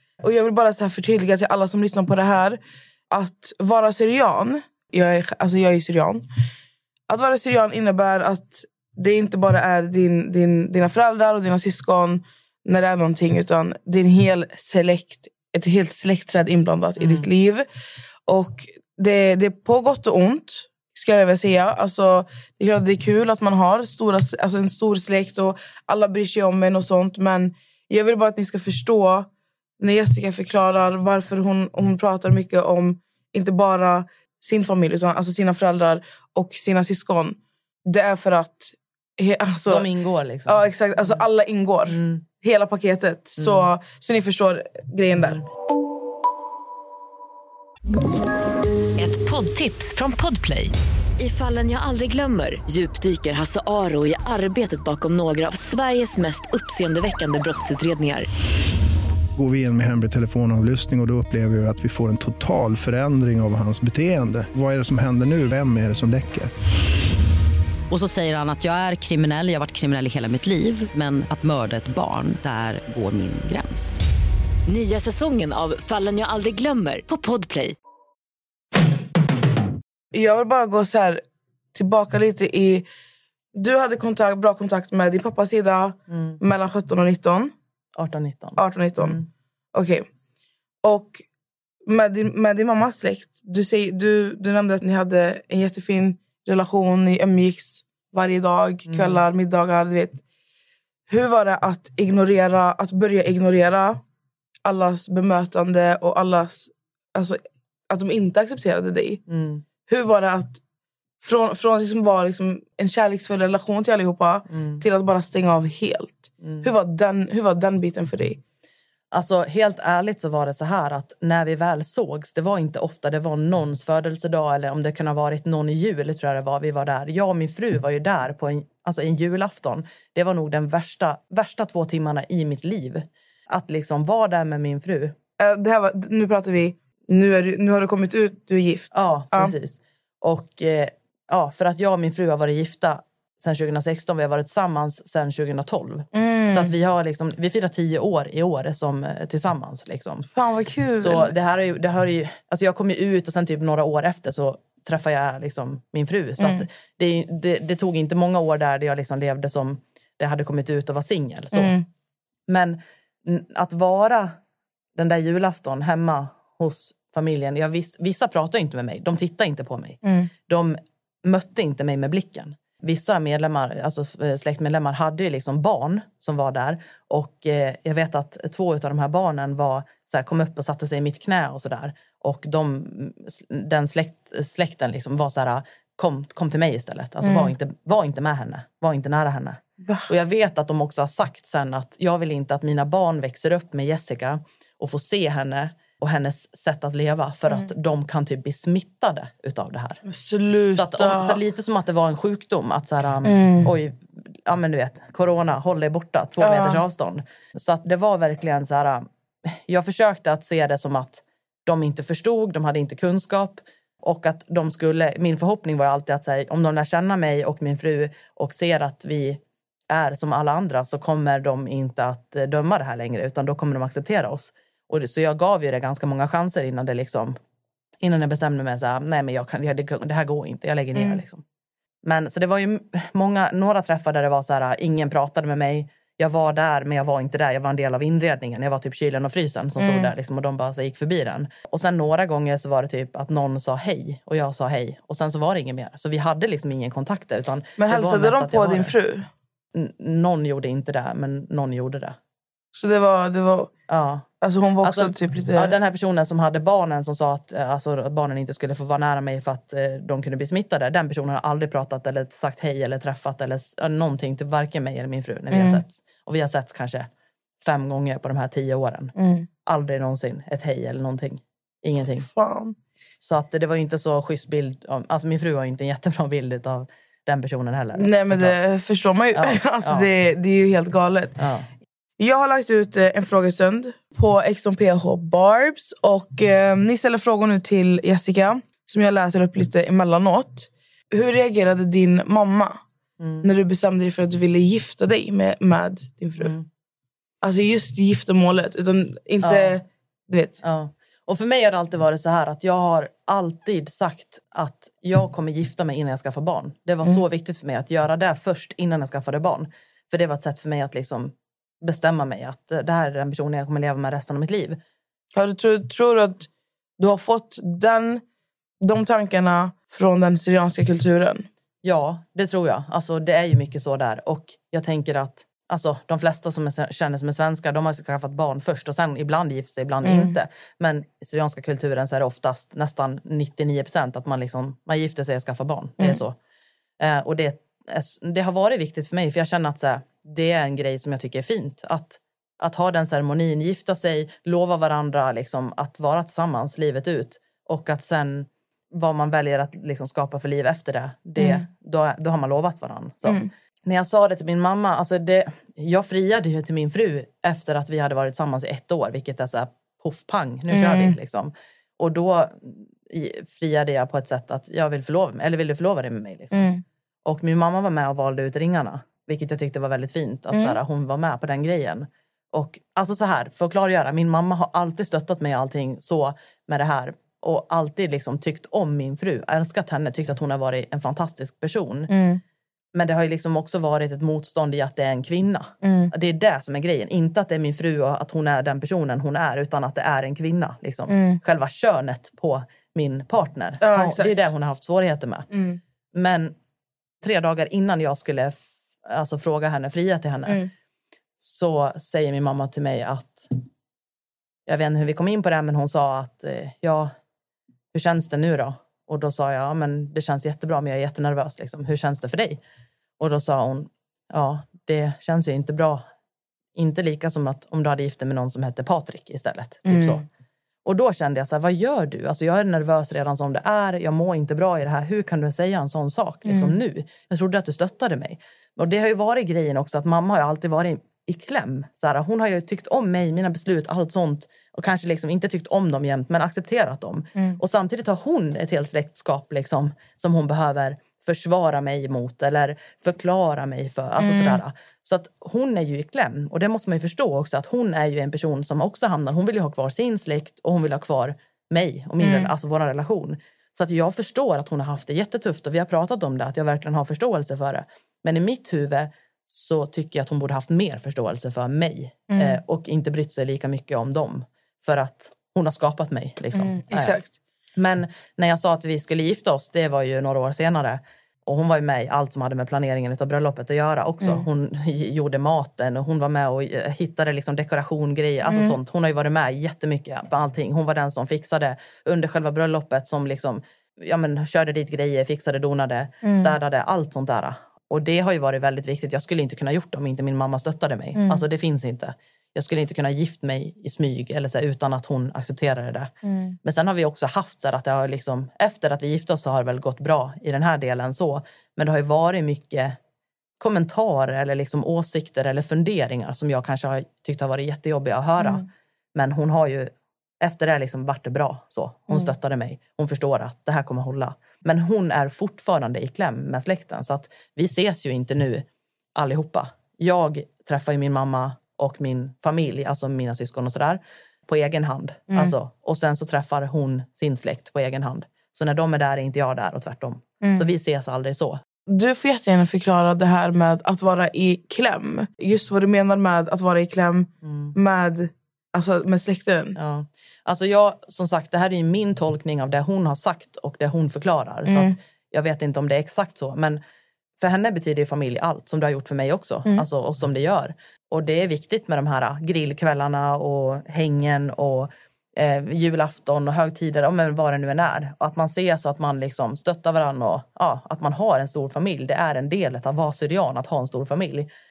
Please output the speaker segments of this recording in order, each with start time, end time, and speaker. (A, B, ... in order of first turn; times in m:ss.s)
0:00.2-0:06.3 A
0:07.1-0:17.7 A
0:17.0-0:17.3 B
0:18.3-0:39.9 A
0:39.7-0:41.2 B
0:40.5-0:45.4 A
0:41.9-0:42.2 B
0:43.4-0:43.7 B
0:49.0-0:58.3 C
0:59.4-1:06.5 D
1:07.9-1:14.0 E
1:14.7-1:17.8 C
1:20.1-1:21.2 A
1:21.7-1:22.9 A
1:23.6-1:27.5 A
1:26.1-1:26.4 B
1:28.0-1:29.3 B
1:28.6-1:29.2 A
1:29.7-1:30.1 A
1:30.8-1:31.2 A
1:31.8-1:40.2 A
1:38.9-1:39.2 B
1:41.1-1:44.0 A
1:44.6-1:49.2 A
1:49.3-1:49.6 B
1:49.9-1:50.6 A
1:51.2-1:58.4 A
1:54.5-1:54.8 B
1:56.4-1:56.7 B
1:59.1-2:15.2 B
2:15.4-2:19.6 A
2:18.9-2:30.3 B
2:26.1-2:26.7 A
2:30.4-2:31.3 A
2:30.9-2:41.8 B
2:36.4-2:36.7 A
2:41.5-2:41.9 A
2:42.5-2:44.3 B
2:45.0-3:20.0 B
2:50.0-2:50.3 A
3:07.2-3:07.5 A
3:20.0-3:21.4 A
3:20.7-3:47.4 B
3:23.2-3:23.7 A
3:26.4-3:26.8 A
3:48.0-3:51.4 B
3:50.9-3:51.2 A
3:52.0-4:08.9 B
3:59.8-4:00.1 A
4:07.8-4:09.3 A
4:09.7-4:12.2 B
4:12.7-4:13.7 A
4:13.9-4:14.3 B
4:14.4-4:15.7 A
4:14.8-4:27.1 B
4:25.5-4:25.8 A
4:27.6-4:29.1 B
4:29.2-4:29.5 A
4:29.7-4:32.3 B
4:32.2-4:32.8 A
4:33.2-4:38.6 B
4:38.0-4:41.4 A
4:39.4-4:40.1 B
4:41.4-4:41.7 B
4:42.2-4:52.8 A
4:53.2-4:53.5 B
4:53.4-4:56.5 A
4:56.4-4:56.7 B
4:57.4-5:00.6 A
4:59.4-4:59.8 B
5:00.6-5:14.8 B
5:15.3-5:16.5 A
5:17.0-5:18.2 A
5:18.8-5:21.5 A
5:21.8-5:36.4 B
5:30.0-5:30.4 A
5:37.0-6:06.7 B
5:51.4-5:51.6 A
5:53.2-5:53.5 A
6:00.7-6:01.2 A
6:06.5-6:06.8 A
6:07.3-6:22.1 B
6:10.5-6:10.8 A
6:22.1-6:22.4 A
6:23.0-6:35.5 B
6:25.8-6:26.1 A
6:31.1-6:31.4 A
6:33.8-6:34.5 A
6:35.5-6:35.8 A
6:36.1-6:36.6 B
6:37.2-6:40.6 B
6:40.5-6:40.7 A
6:41.4-6:43.5 B
6:44.7-6:47.1 B
6:47.9-6:52.6 B
6:53.2-6:56.0 B
6:56.8-7:00.2 B
6:59.9-7:00.2 A
7:00.8-7:47.2 B
7:06.4-7:06.8 A
7:24.2-7:24.6 A
7:32.2-7:32.5 A
7:42.3-7:42.6 A
7:46.5-7:47.4 A
7:47.8-8:16.1 B
7:58.5-7:58.8 A
8:06.2-8:06.6 A
8:11.2-8:11.5 A
8:16.2-8:16.6 A
8:16.6-8:23.0 B
8:23.6-8:38.6 B
8:28.4-8:28.6 A
8:39.2-8:51.6 B
8:50.4-8:50.7 A
8:51.9-8:59.8 A
8:57.4-8:57.8 B
8:59.8-9:06.8 B
9:04.7-9:05.0 A
9:07.4-9:24.5 B